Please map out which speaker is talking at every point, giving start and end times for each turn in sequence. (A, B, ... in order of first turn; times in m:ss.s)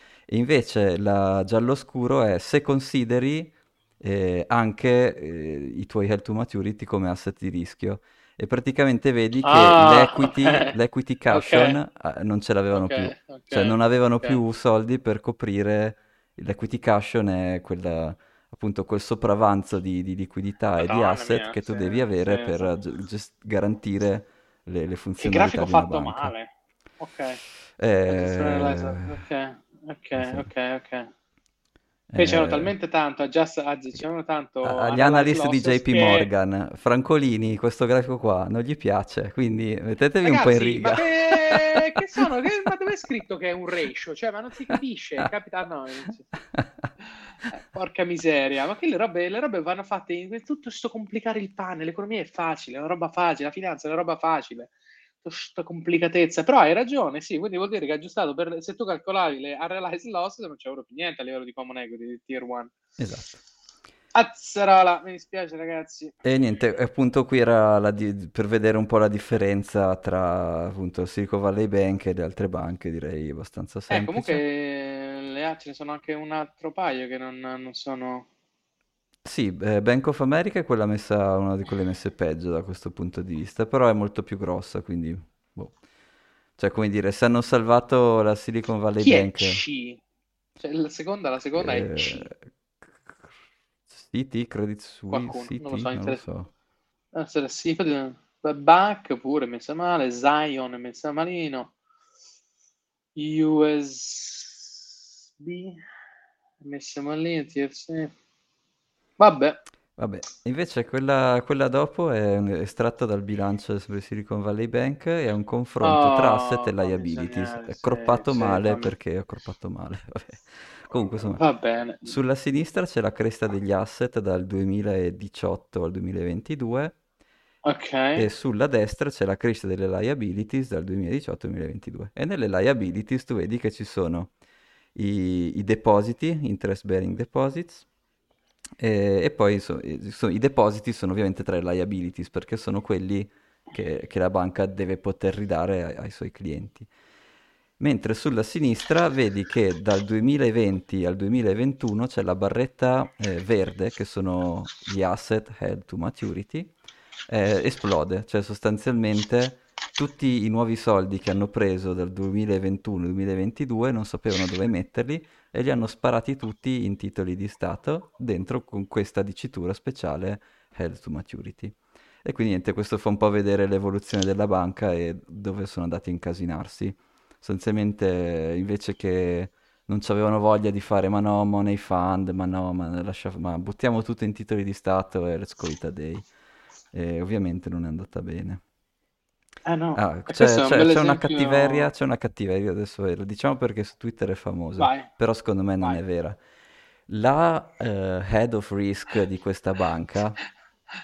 0:00.3-0:26.3 A
0:09.4-0:10.8 B
0:11.3-0:11.8 B
0:12.7-0:14.4 B
0:20.8-0:22.7 B
0:25.2-0:27.4 B
0:27.8-0:29.2 A
0:28.1-0:31.1 B
0:30.2-0:30.5 A
0:32.1-0:32.7 A
0:32.2-0:36.3 B
0:34.6-0:42.2 A
0:40.2-0:46.3 B
0:46.5-0:46.9 A
0:47.1-1:02.8 B
1:03.0-1:03.4 A
1:04.1-1:06.2 B
1:06.2-1:14.4 A
1:13.9-1:18.3 B
1:19.2-1:25.8 A
1:26.6-1:29.6 A
1:29.0-1:30.0 B
1:30.6-1:32.3 B
1:31.6-1:33.3 A
1:33.9-1:36.5 A
1:35.1-1:36.2 B
1:37.1-1:41.7 B
1:43.2-1:44.9 B
1:45.4-1:45.8 B
1:46.6-1:48.1 B
1:49.2-1:49.6 B
1:50.0-2:01.4 A
1:55.8-1:59.0 B
2:01.1-2:02.2 B
2:02.0-2:07.0 A
2:07.6-2:08.3 B
2:08.2-2:14.3 A
2:15.0-2:17.9 A
2:18.8-2:26.9 A
2:27.8-2:36.7 A
2:37.3-3:06.3 A
3:06.9-3:08.6 A
3:09.7-3:11.9 B
3:10.0-3:16.4 A
3:14.8-3:15.1 B
3:17.1-3:20.4 A